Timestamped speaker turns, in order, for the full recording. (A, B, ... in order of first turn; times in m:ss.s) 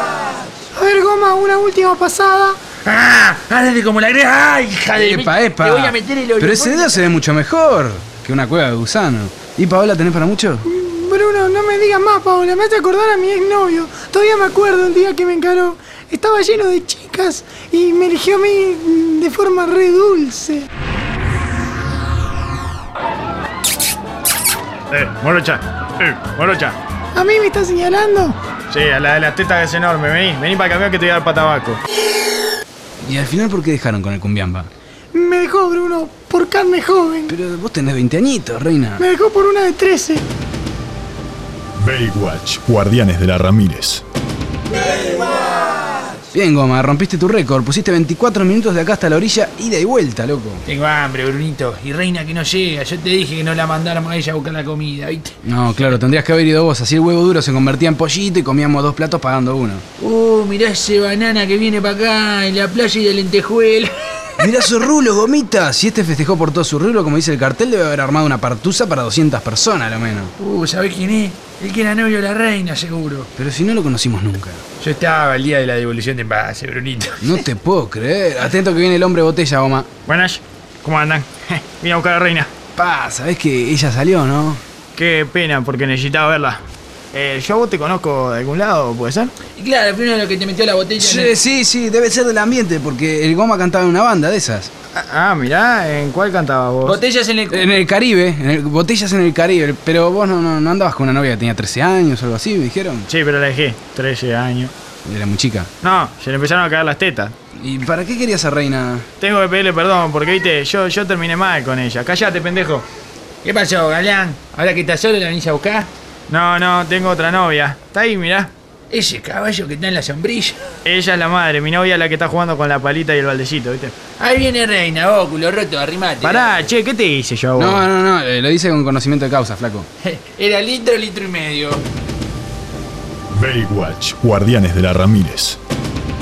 0:00.7-0:02.6 A
0:02.8-0:07.1 B
0:05.0-0:10.7 C
0:10.6-0:20.7 A
0:24.9-0:26.8 D
0:27.1-0:28.4 A
0:28.7-0:31.8 D
0:33.0-0:34.7 C
0:35.1-0:37.3 A
0:37.3-0:39.1 C
0:39.0-0:40.2 A
0:41.8-0:44.0 E
0:46.3-0:50.6 C
0:50.7-0:56.0 B
0:55.4-0:59.8 C
1:00.0-1:04.8 B
1:04.4-1:10.3 C
1:10.4-1:13.3 B
1:13.4-1:14.6 C
1:14.8-1:17.4 B
1:17.2-1:19.9 C
1:20.1-1:22.5 D
1:22.8-1:24.6 C
1:25.0-1:26.6 D
1:27.1-1:29.3 D
1:29.5-1:31.3 B
1:31.0-1:34.7 C
1:34.9-1:37.0 D
1:36.8-1:37.7 B
1:37.5-1:43.1 C
1:43.1-1:44.7 D
1:45.0-1:45.7 C
1:45.8-1:47.3 D
1:47.6-1:49.1 C
1:49.2-1:52.8 D
1:53.4-1:55.9 B
1:56.3-1:58.5 D
1:58.9-2:00.6 B
2:00.8-2:04.0 D
2:04.2-2:06.7 B
2:06.2-2:07.8 D
2:07.5-2:09.9 C
2:10.0-2:11.8 B
2:13.3-2:15.6 E